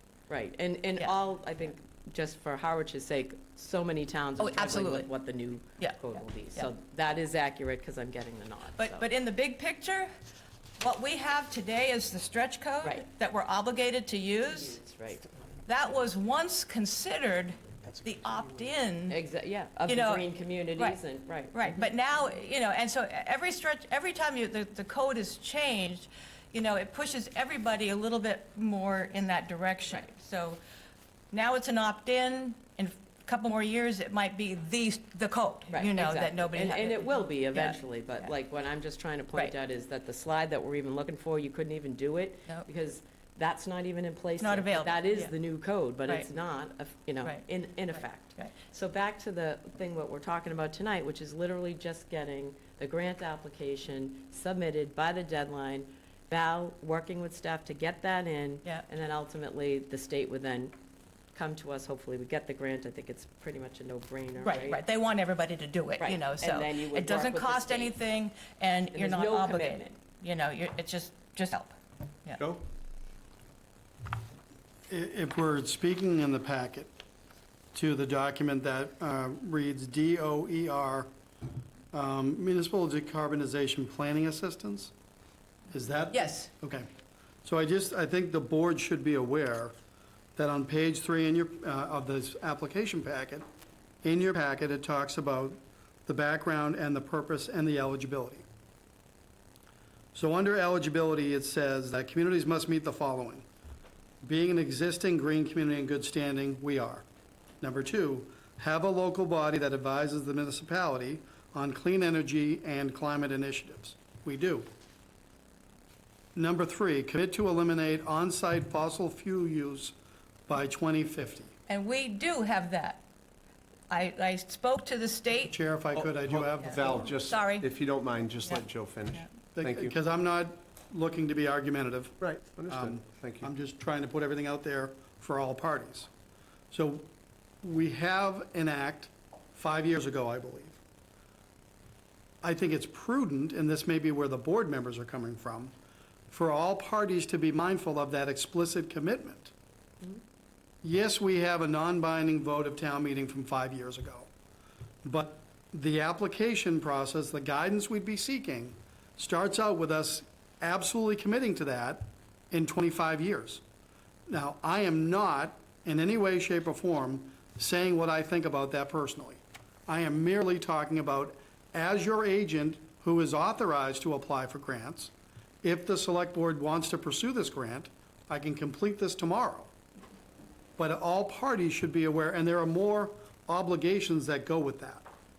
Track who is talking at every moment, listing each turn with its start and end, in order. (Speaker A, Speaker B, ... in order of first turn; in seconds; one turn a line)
Speaker A: 0.3-9.1
Speaker B: 4.4-5.1
Speaker B: 8.8-10.1
Speaker B: 10.8-14.8
Speaker A: 14.5-15.3
Speaker B: 15.7-19.2
Speaker A: 19.1-21.6
Speaker B: 19.9-21.0
Speaker B: 21.5-30.6
Speaker B: 31.3-38.3
Speaker A: 35.7-60.7
Speaker B: 44.4-45.3
Speaker B: 47.2-48.5
Speaker A: 61.3-64.8
Speaker B: 64.4-71.7
Speaker A: 66.0-68.0
Speaker A: 68.9-70.0
Speaker C: 72.4-72.6
Speaker D: 74.9-76.9
Speaker D: 77.7-81.1
Speaker D: 81.9-84.9
Speaker D: 85.7-86.9
Speaker B: 86.1-86.5
Speaker D: 87.4-89.7
Speaker D: 90.3-93.4
Speaker D: 94.0-98.5
Speaker D: 100.1-103.5
Speaker D: 104.2-107.0
Speaker D: 107.6-114.7
Speaker D: 116.3-119.9
Speaker D: 120.5-121.5
Speaker B: 121.7-123.0
Speaker B: 123.9-125.5
Speaker D: 125.5-126.9
Speaker C: 126.0-129.9
Speaker B: 126.7-127.7
Speaker D: 129.6-136.1
Speaker C: 132.2-133.5
Speaker D: 136.7-137.1
Speaker D: 137.6-140.8
Speaker D: 142.4-145.7
Speaker D: 146.3-149.5
Speaker D: 150.8-154.3
Speaker D: 155.0-163.6
Speaker D: 164.3-175.1
Speaker D: 175.6-179.7
Speaker D: 180.8-185.0